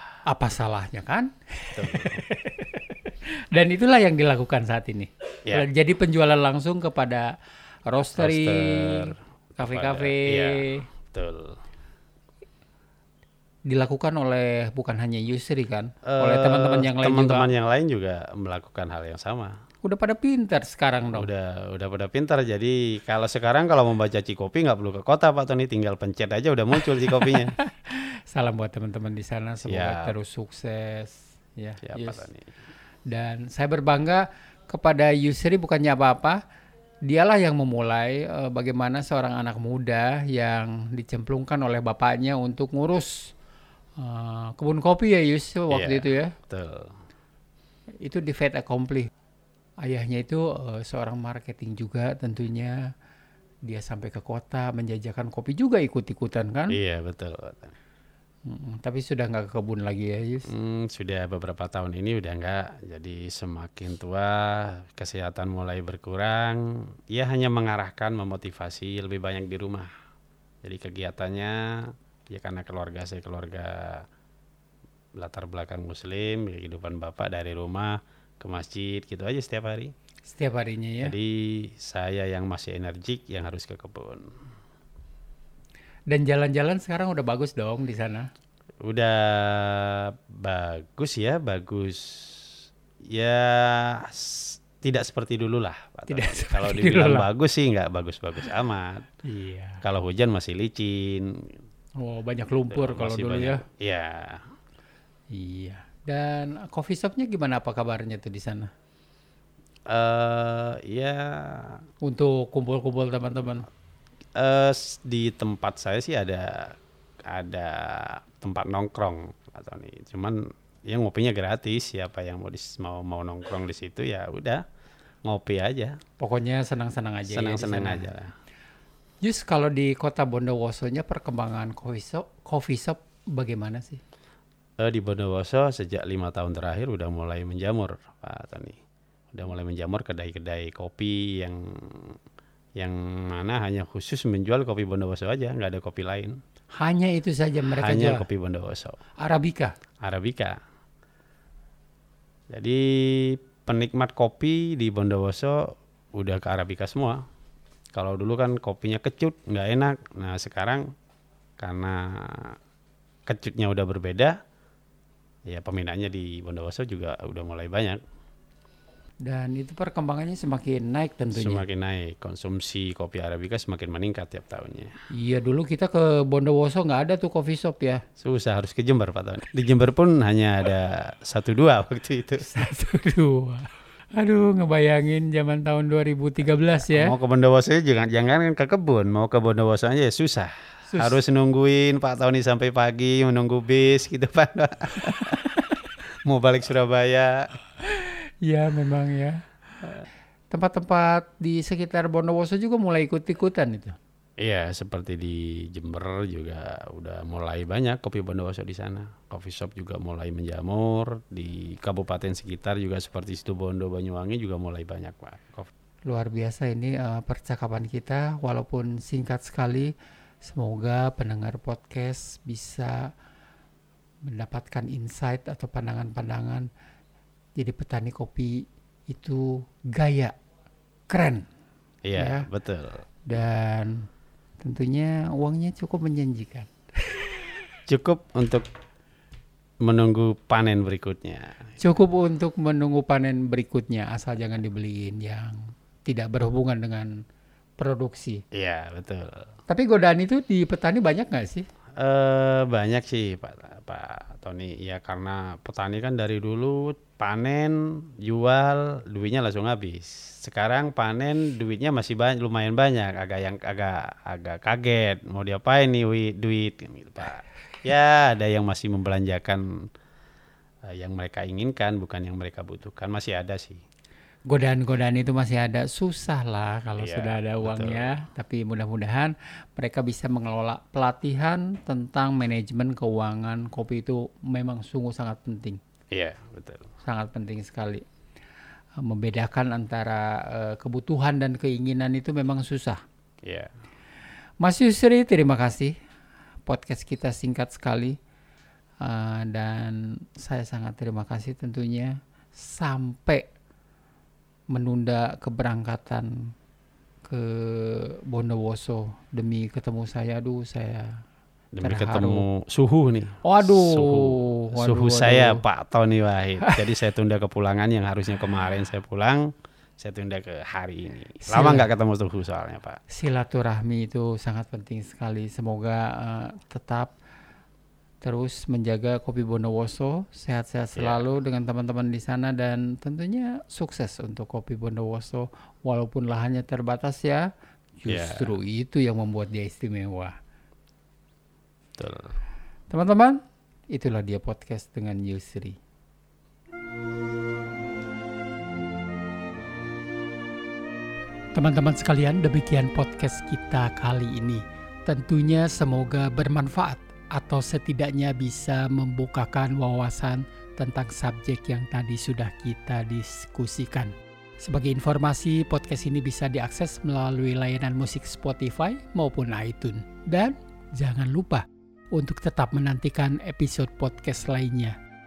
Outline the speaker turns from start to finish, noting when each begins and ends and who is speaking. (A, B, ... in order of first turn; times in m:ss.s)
0:00.3-0:07.3 A
0:01.7-0:02.2 B
0:07.8-0:10.8 A
0:08.2-0:11.6 B
0:13.7-0:17.5 A
0:16.0-0:19.6 B
0:19.8-0:21.3 A
0:21.1-0:27.5 B
0:27.2-0:32.2 A
0:29.6-0:30.1 B
0:31.8-0:32.4 B
0:33.1-0:36.4 A
0:37.0-0:43.3 A
0:44.0-0:46.3 A
0:45.7-0:46.9 B
0:48.0-0:49.1 A
0:49.8-0:52.8 A
0:53.6-0:56.8 A
0:56.7-0:57.7 B
0:58.5-1:00.5 A
1:00.5-1:09.9 B
1:10.6-1:14.0 B
1:15.2-1:19.9 B
1:20.3-1:21.1 A
1:21.0-1:24.3 B
1:26.1-1:28.3 A
1:28.8-1:32.6 B
1:33.1-1:39.1 B
1:36.1-1:37.3 A
1:39.2-1:39.8 A
1:39.8-1:41.6 B
1:42.0-1:43.6 A
1:42.7-1:44.5 B
1:45.3-1:48.7 A
1:49.9-1:51.8 B
1:52.0-1:53.7 A
1:54.4-2:04.6 B
2:05.2-2:06.0 B
2:06.2-2:08.1 A
2:07.3-2:08.3 B
2:09.2-2:14.0 A
2:14.8-2:18.8 B
2:19.3-2:22.2 B
2:22.8-2:26.4 B
2:26.8-2:28.2 A
2:27.8-2:29.0 B
2:29.2-2:29.7 A
2:30.0-2:30.6 B
2:32.5-2:37.2 B
2:37.9-2:40.9 B
2:41.6-2:42.6 B
2:43.3-2:44.4 B
2:45.4-2:48.0 B
2:49.2-2:51.6 A
2:51.3-2:54.9 B
2:55.1-2:58.0 A
2:58.2-3:02.5 B
3:02.4-3:07.1 A
3:06.9-3:15.4 B
3:10.9-3:11.2 A
3:15.1-3:15.7 A
3:16.2-3:17.5 B
3:17.8-3:19.4 A
3:20.5-3:24.0 A
3:24.4-3:35.7 B
3:36.1-3:43.1 A
3:44.2-3:46.7 A
3:47.6-3:50.3 A
3:51.1-3:51.5 A
3:52.0-3:53.0 B
3:52.2-3:52.5 A
3:53.2-3:54.1 A
3:54.6-3:57.4 A
3:57.9-3:58.6 B
3:59.8-4:01.6 B
4:01.8-4:07.1 A
4:07.8-4:08.4 A
4:08.5-4:09.5 B
4:09.7-4:11.6 A
4:12.0-4:29.6 B
4:30.9-4:33.8 B
4:34.5-4:45.8 A
4:37.0-4:38.1 B
4:46.1-4:46.9 B
4:47.0-4:48.0 A
4:49.0-4:53.0 A
4:53.4-4:53.7 B
4:54.6-4:55.9 A
4:56.6-4:58.2 A
4:59.0-5:03.5 A
5:04.7-5:06.5 A
5:07.2-5:11.2 A
5:11.7-5:23.0 B
5:11.8-5:12.4 A
5:13.4-5:15.6 A
5:21.4-5:21.9 A
5:23.1-5:27.1 A
5:28.2-5:37.4 A
5:31.0-5:31.3 B
5:38.0-5:40.3 A
5:38.1-5:38.5 B
5:42.0-5:42.3 B
5:42.9-5:45.8 A
5:51.5-6:15.0 A